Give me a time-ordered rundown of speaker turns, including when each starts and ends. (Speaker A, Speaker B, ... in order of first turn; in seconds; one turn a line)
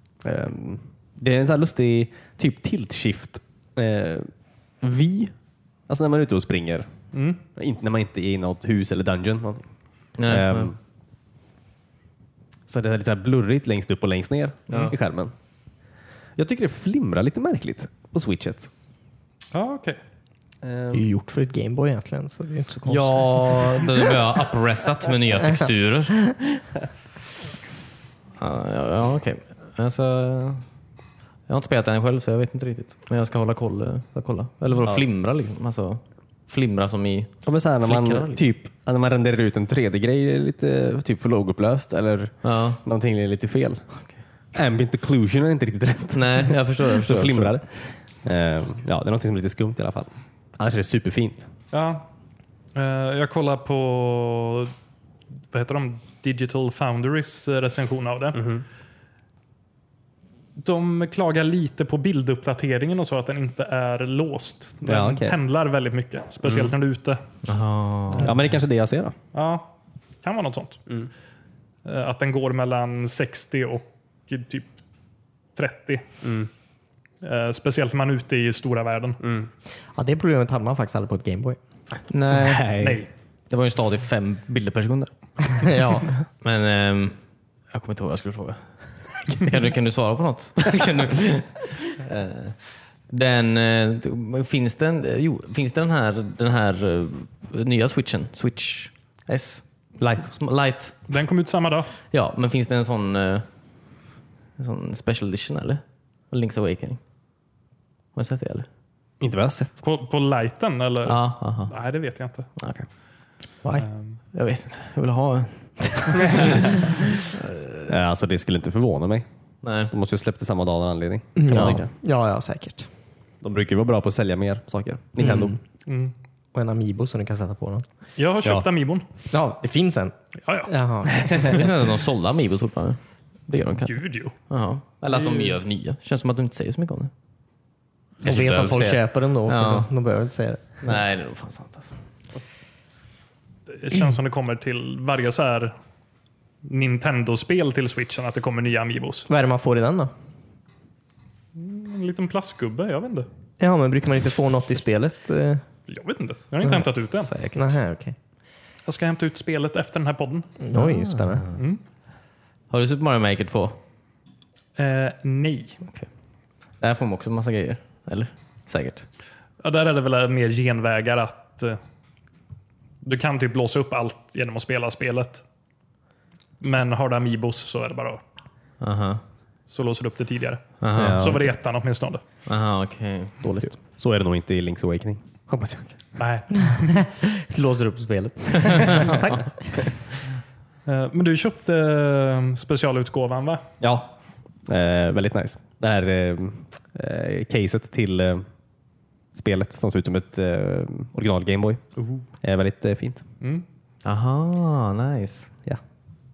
Speaker A: 0.2-4.3
Speaker A: 4.8-5.3
Speaker A: 5.9-6.9
Speaker B: 7.1-7.4
Speaker A: 7.5-9.7
Speaker C: 10.2-10.7
Speaker A: 10.3-10.8
Speaker A: 12.7-15.3
Speaker C: 14.7-14.9
Speaker A: 16.4-18.7
Speaker B: 19.5-20.0
Speaker A: 20.6-21.0
Speaker D: 20.9-23.9
Speaker C: 22.9-26.1
Speaker A: 22.9-23.5
Speaker C: 28.4-30.6
Speaker C: 31.5-38.5
Speaker A: 37.4-43.8
Speaker C: 42.4-42.8
Speaker A: 44.5-51.5
Speaker C: 46.1-47.6
Speaker B: 51.7-52.1
Speaker B: 52.7-54.7
Speaker B: 55.5-58.5
Speaker A: 58.3-58.6
Speaker B: 60.6-67.2
Speaker A: 64.8-65.4
Speaker C: 67.4-68.3
Speaker A: 68.2-69.1
Speaker B: 69.3-69.7
Speaker B: 70.2-70.8
Speaker B: 71.8-74.7
Speaker B: 75.5-76.1
Speaker A: 76.2-76.5
Speaker B: 77.2-79.2
Speaker A: 79.2-79.5
Speaker D: 80.0-81.6
Speaker C: 82.1-82.7
Speaker A: 82.3-83.0
Speaker B: 82.8-83.1
Speaker C: 83.5-85.1
Speaker D: 85.6-86.2
Speaker C: 86.4-87.2
Speaker C: 87.7-99.6
Speaker A: 100.0-100.3
Speaker C: 100.2-101.0
Speaker B: 101.1-101.9
Speaker C: 102.1-103.5
Speaker C: 104.6-107.0
Speaker C: 108.1-108.7
Speaker A: 109.2-109.8
Speaker B: 109.8-112.5
Speaker C: 111.0-111.7
Speaker C: 112.6-112.9
Speaker B: 113.8-114.2
Speaker C: 114.3-117.9
Speaker A: 117.9-119.2
Speaker C: 119.6-119.9
Speaker A: 119.9-121.9
Speaker D: 121.4-122.9
Speaker C: 121.5-121.8
Speaker A: 123.4-125.6
Speaker D: 125.2-125.6
Speaker B: 125.9-126.1
Speaker D: 126.5-127.8
Speaker B: 128.2-129.1
Speaker D: 129.3-130.1
Speaker B: 130.4-130.7
Speaker D: 130.7-131.7
Speaker C: 131.3-133.9
Speaker B: 133.8-134.3
Speaker C: 134.5-137.1
Speaker B: 135.1-135.6
Speaker D: 138.2-140.6
Speaker C: 138.2-139.9
Speaker C: 140.8-141.9
Speaker B: 143.7-145.7
Speaker B: 146.6-149.3
Speaker D: 149.3-150.1
Speaker B: 151.6-153.3
Speaker D: 153.6-155.6
Speaker B: 155.9-157.3
Speaker C: 157.2-157.6
Speaker D: 157.5-158.1
Speaker B: 158.9-160.5
Speaker D: 160.6-161.4
Speaker C: 160.7-161.6
Speaker C: 162.7-163.8
Speaker B: 164.8-165.8
Speaker C: 166.8-169.1
Speaker B: 169.6-171.8
Speaker B: 173.0-175.4
Speaker B: 176.6-178.2
Speaker C: 178.8-179.2
Speaker B: 179.7-182.2
Speaker C: 180.8-181.2
Speaker A: 180.9-181.5
Speaker C: 182.4-183.4
Speaker A: 183.6-186.0
Speaker B: 186.2-186.7
Speaker D: 186.6-189.9
Speaker C: 188.7-189.3
Speaker B: 190.9-193.6
Speaker A: 193.8-194.1
Speaker A: 194.7-198.4
Speaker A: 199.3-201.8
Speaker B: 202.0-202.2
Speaker A: 202.4-203.2
Speaker C: 204.0-205.5